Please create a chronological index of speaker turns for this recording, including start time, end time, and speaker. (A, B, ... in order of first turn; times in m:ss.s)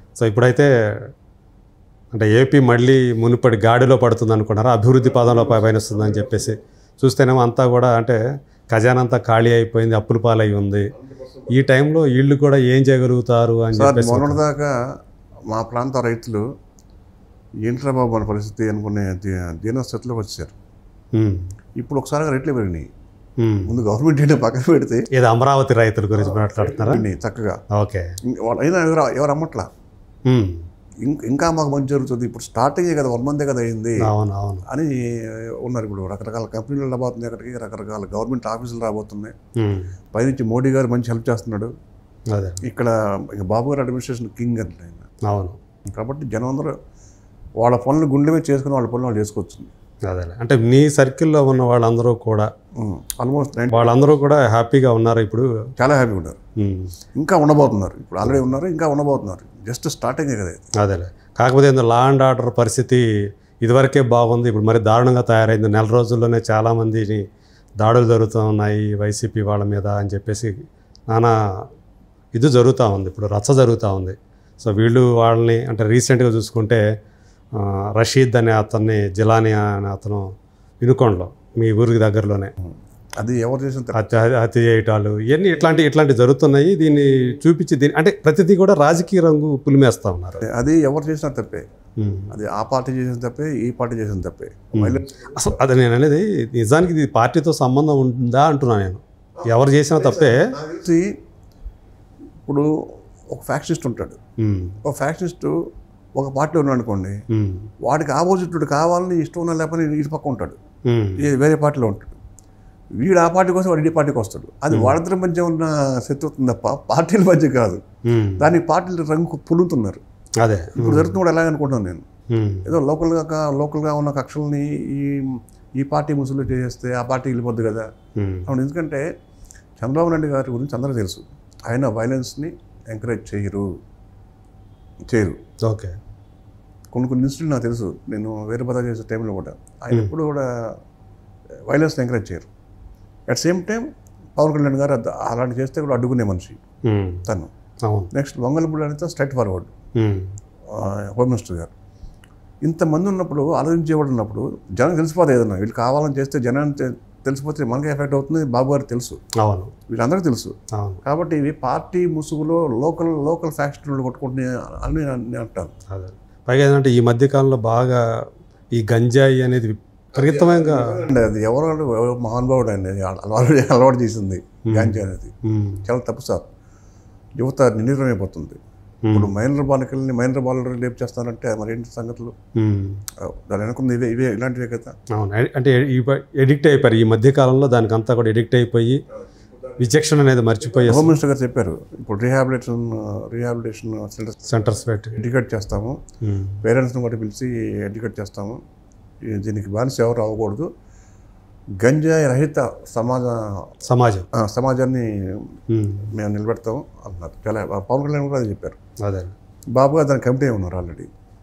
0:00.2-0:00.7 A
0:02.1-0:08.2 A
0:05.1-0:06.5 B
0:08.7-0:10.9 A
0:11.0-0:11.5 B
0:11.5-0:14.4 A
0:13.8-0:14.8 B
0:15.5-0:16.4 B
0:17.6-0:20.5 B
0:21.1-0:21.4 A
0:21.8-0:22.9 B
0:23.4-0:23.7 A
0:23.7-0:25.1 B
0:25.1-0:27.0 A
0:26.2-0:27.6 B
0:27.7-0:28.1 A
0:28.3-0:29.7 B
0:30.3-0:30.6 A
0:31.0-0:34.1 B
0:34.0-0:34.6 A
0:34.7-0:39.3 B
0:39.6-0:39.9 A
0:40.1-0:41.7 B
0:42.3-0:42.6 A
0:42.6-0:45.1 B
0:45.3-0:45.6 A
0:45.9-0:46.7 B
0:47.6-0:49.7 B
0:50.1-0:52.5 A
0:52.8-0:54.0 B
0:53.7-0:55.5 A
0:55.8-0:56.4 B
0:56.6-0:56.9 A
0:57.2-1:00.6 B
1:00.8-1:03.0 A
1:03.6-1:07.2 A
1:07.8-1:10.5 A
1:12.3-1:16.8 A
1:17.6-1:20.2 A
1:20.8-1:22.5 A
1:22.6-1:24.0 B
1:23.9-1:30.4 A
1:30.4-1:31.7 B
1:32.0-1:32.4 A
1:32.3-1:35.6 B
1:34.7-1:40.4 A
1:39.4-1:41.1 B
1:43.3-1:44.2 B
1:44.4-1:44.8 A
1:44.8-1:45.6 B
1:46.2-1:47.2 B
1:47.3-1:47.7 A
1:47.8-1:50.6 B
1:50.9-1:51.2 A
1:51.2-1:52.2 B
1:53.0-1:57.8 B
1:54.7-1:55.0 A
1:58.1-1:58.5 A
1:58.4-2:00.0 B
2:00.4-2:01.1 A
2:00.8-2:02.0 B
2:02.3-2:02.7 A
2:02.6-2:07.9 B
2:08.2-2:08.5 A
2:08.5-2:09.0 B
2:09.8-2:13.7 B
2:15.1-2:15.4 B
2:15.7-2:15.9 A
2:16.9-2:20.5 B
2:21.7-2:22.5 B
2:23.3-2:23.9 B
2:24.4-2:26.6 B
2:26.9-2:27.2 A
2:27.9-2:28.1 A
2:28.1-2:29.7 B
2:30.0-2:30.3 A
2:30.7-2:31.7 B
2:32.6-2:39.2 B
2:39.4-2:39.7 A
2:39.9-2:45.7 B
2:40.7-2:41.0 A
2:45.9-2:48.0 A
2:48.8-2:51.0 A
2:50.1-2:55.3 B
2:54.7-2:55.8 A
2:55.8-2:56.5 B
2:57.4-2:58.6 B
2:59.1-2:59.3 A
2:59.1-3:02.3 B
3:02.6-3:03.0 A
3:03.2-3:04.9 B
3:05.1-3:09.0 A
3:09.8-3:11.1 A
3:10.6-3:16.0 B
3:14.5-3:15.2 A
3:16.2-3:16.6 A
3:16.6-3:18.6 B
3:19.3-3:20.7 B
3:21.8-3:23.7 B
3:23.9-3:24.3 A
3:24.3-3:25.5 B
3:25.7-3:26.1 A
3:26.1-3:28.8 B
3:29.0-3:29.3 A
3:29.8-3:31.1 B